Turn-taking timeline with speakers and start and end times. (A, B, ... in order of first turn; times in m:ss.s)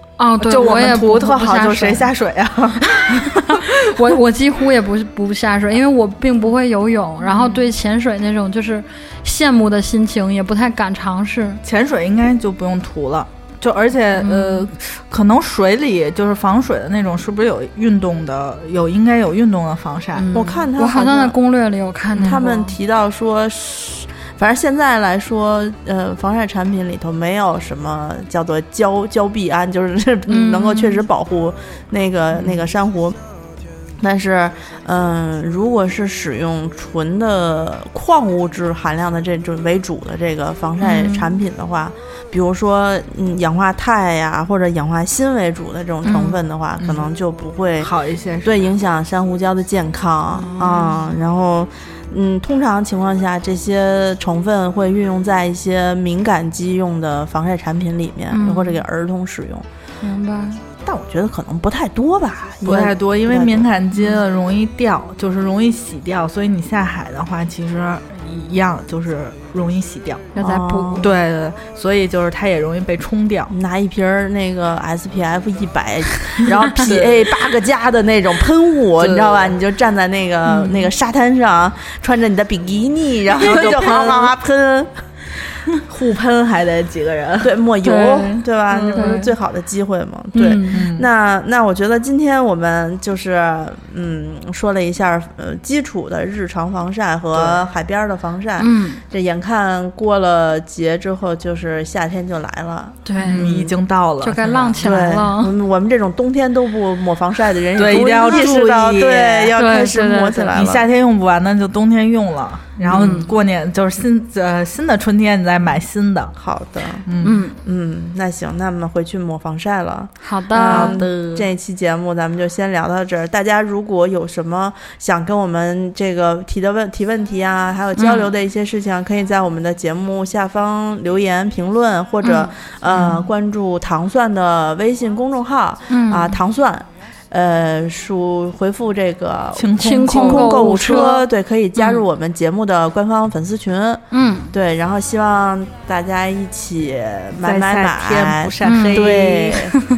0:00.2-0:02.1 A
0:00.4-0:03.7 B
0:03.8-0:11.6 A
0:07.3-0:07.6 B
0:11.6-0:20.3 B
0:14.2-0:14.7 A
0:20.1-0:22.8 A
0:20.3-0:21.4 C
0:22.2-0:22.4 B
0:22.2-0:33.2 C
0:30.3-0:31.0 A
0:32.4-0:32.6 B
0:34.0-0:47.9 C
0:40.8-0:41.4 A
0:46.0-0:46.4 A
0:46.8-0:47.1 B
0:47.8-0:48.6 B
0:48.4-0:59.6 C
0:50.4-0:51.1 A
0:58.3-0:58.8 A
1:00.0-1:00.6 A
1:00.8-1:03.7 C
1:02.6-1:10.3 B
1:10.4-1:11.1 A
1:10.4-1:11.1 C
1:11.0-1:13.5 B
1:13.5-1:24.9 C
1:16.7-1:17.3 B
1:19.0-1:19.6 B
1:23.5-1:24.3 B
1:25.8-1:27.6 B
1:27.4-1:43.8 C
1:27.8-1:29.3 A
1:28.7-1:29.2 B
1:30.4-1:30.9 A
1:30.7-1:31.1 B
1:37.3-1:37.6 B
1:38.6-1:39.0 A
1:43.0-1:43.5 A
1:43.2-1:44.8 B
1:44.2-1:45.5 A
1:44.8-1:50.9 C
1:47.8-1:49.6 B
1:49.6-1:50.5 A
1:50.5-1:56.3 B
1:52.9-1:53.2 C
1:52.9-1:53.3 A
1:56.4-1:57.1 C
1:57.1-1:57.4 B
1:57.2-1:57.6 A
1:57.6-2:24.0 C
2:00.2-2:01.0 A
2:00.7-2:01.5 B
2:08.0-2:08.3 A
2:12.2-2:12.5 A
2:12.9-2:13.3 B
2:15.9-2:16.4 A
2:19.6-2:20.6 B
2:19.8-2:22.0 A
2:24.1-2:24.6 A
2:24.5-2:29.7 C
2:27.4-2:29.7 B
2:28.6-2:29.6 A